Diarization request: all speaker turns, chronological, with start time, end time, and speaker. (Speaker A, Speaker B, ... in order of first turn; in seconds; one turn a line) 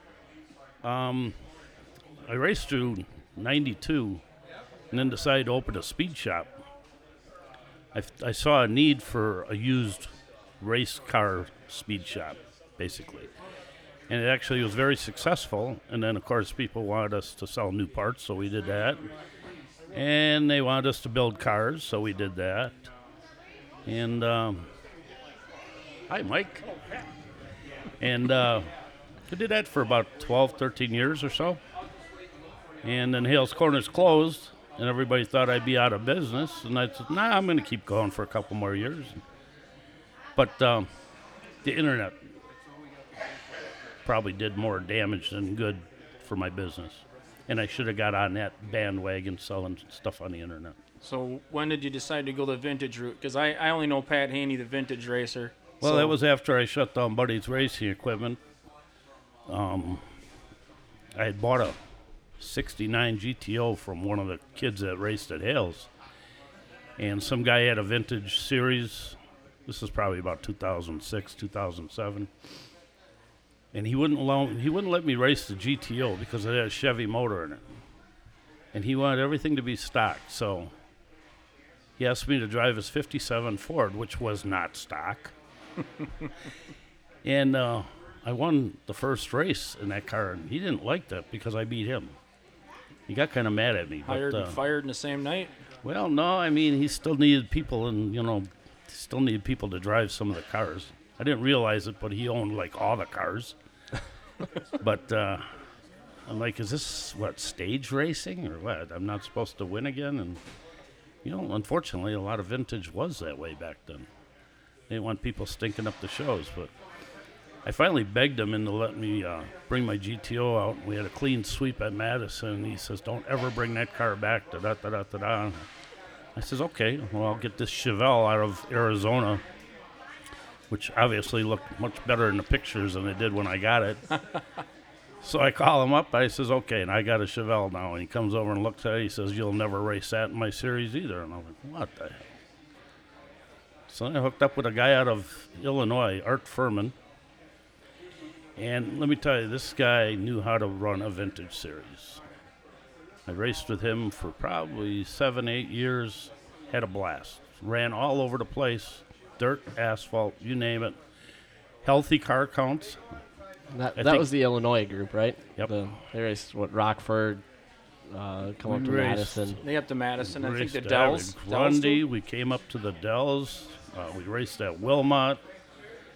Speaker A: 0.8-1.4
Speaker A: 2.2-4.2
Speaker A: 4.9-6.5
Speaker A: 7.9-13.3
Speaker A: 14.1-19.0
Speaker A: 19.9-22.9
Speaker A: 23.9-24.7
Speaker A: 26.1-26.6
Speaker A: 28.0-28.6
Speaker A: 29.3-31.6
Speaker A: 32.8-39.2
Speaker A: 40.4-40.9
Speaker A: 41.6-42.2
Speaker A: 44.0-50.8
Speaker B: 51.0-56.1
Speaker A: 55.8-58.4
Speaker A: 59.5-60.0
Speaker A: 61.1-61.8
Speaker A: 62.4-65.9
Speaker A: 67.0-72.3
Speaker A: 73.7-77.6
Speaker A: 78.7-80.7
Speaker A: 82.0-85.3
Speaker A: 87.2-92.2
Speaker A: 93.1-94.6
Speaker B: 94.0-95.5
Speaker A: 95.8-103.5
Speaker A: 104.8-105.4
Speaker A: 106.2-110.4
Speaker A: 111.2-114.1
Speaker A: 114.9-116.7
Speaker A: 117.6-125.5
Speaker A: 126.3-129.4
Speaker A: 130.7-134.0
Speaker A: 135.2-142.3
Speaker A: 143.9-146.9
Speaker A: 148.6-152.2
Speaker A: 153.2-161.0
Speaker A: 161.8-163.0
Speaker C: 163.7-167.4
Speaker A: 163.9-164.3
Speaker C: 168.1-169.6
Speaker A: 168.7-169.6
Speaker B: 169.6-172.0
Speaker A: 170.2-175.4